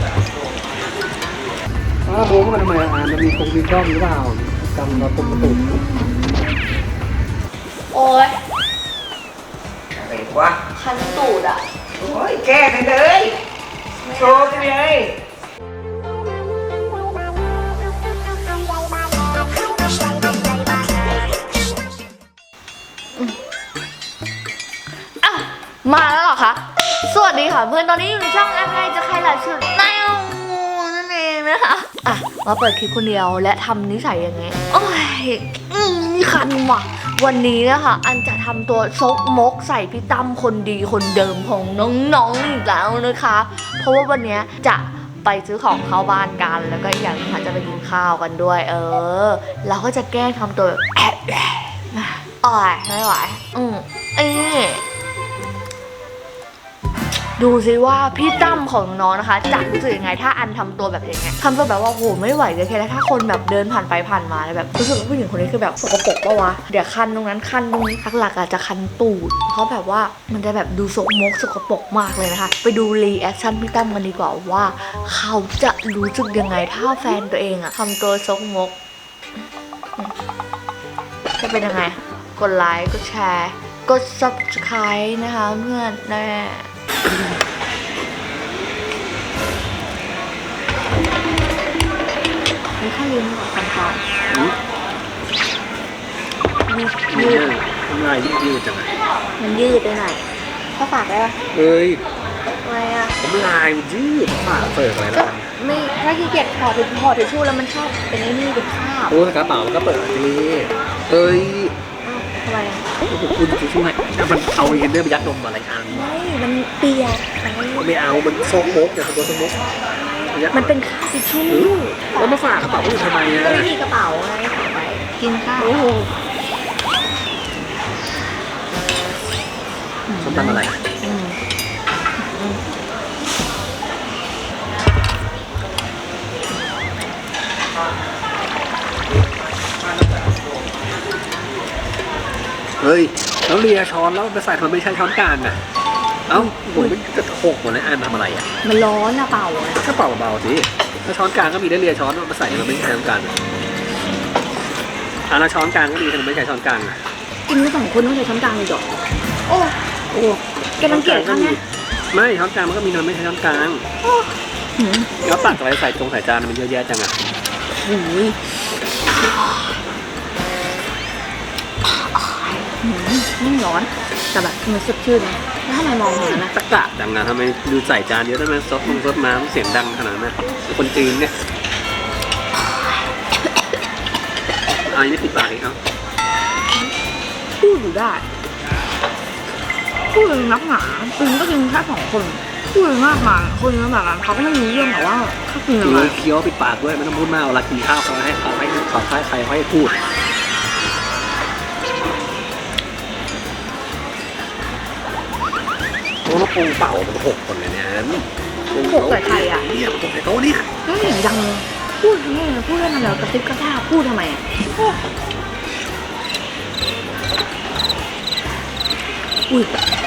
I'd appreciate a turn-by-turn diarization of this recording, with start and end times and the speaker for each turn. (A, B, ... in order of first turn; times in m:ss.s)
0:02.1-0:05.8 A
0:04.9-0:06.5 B
0:07.9-0:08.3 B
0:10.0-0:10.6 C
0:10.7-0:11.6 B
0:12.0-0:13.4 C
0:14.1-0:14.7 B
0:14.1-0:15.1 C
0:25.2-0:54.8 B
0:57.4-1:18.7 B
1:21.4-1:26.7 B
1:32.8-1:34.0 B
1:34.3-1:34.6 A
1:36.7-1:37.5 B
1:37.1-1:38.9 A
1:39.4-1:40.2 B
1:40.8-1:41.4 B
1:41.5-1:42.0 A
1:42.6-1:43.1 B
1:43.2-1:45.5 A
1:45.1-1:49.1 B
1:49.1-1:51.8 A
1:52.0-1:52.9 B
1:53.1-1:56.1 A
1:55.9-1:57.9 B
1:57.8-1:59.6 A
2:00.3-2:00.8 A
2:00.5-2:02.3 B
2:01.5-2:03.7 A
2:03.4-2:06.1 B
2:10.1-2:11.4 B
2:10.2-2:10.8 A
2:12.2-2:12.6 B
2:22.8-2:25.6 A
2:26.3-2:28.5 A
2:26.3-2:26.9 B
2:28.6-2:29.8 B
2:29.8-2:33.3 A
2:35.3-2:37.0 A
2:37.5-2:38.9 B
2:39.5-2:39.7 B
2:40.1-2:41.6 A
2:40.8-2:41.6 B
2:42.1-2:43.8 A
2:44.8-2:45.6 B
2:45.2-2:47.2 A
2:47.8-2:48.4 B
2:49.1-2:49.6 B
2:52.7-2:56.5 B
2:56.2-3:01.4 A
3:04.8-3:05.8 A
3:07.6-3:08.2 B
3:10.1-3:16.2 B
3:15.8-3:20.0 A
3:26.3-3:30.7 A
3:28.8-3:29.6 B
3:30.9-3:34.9 B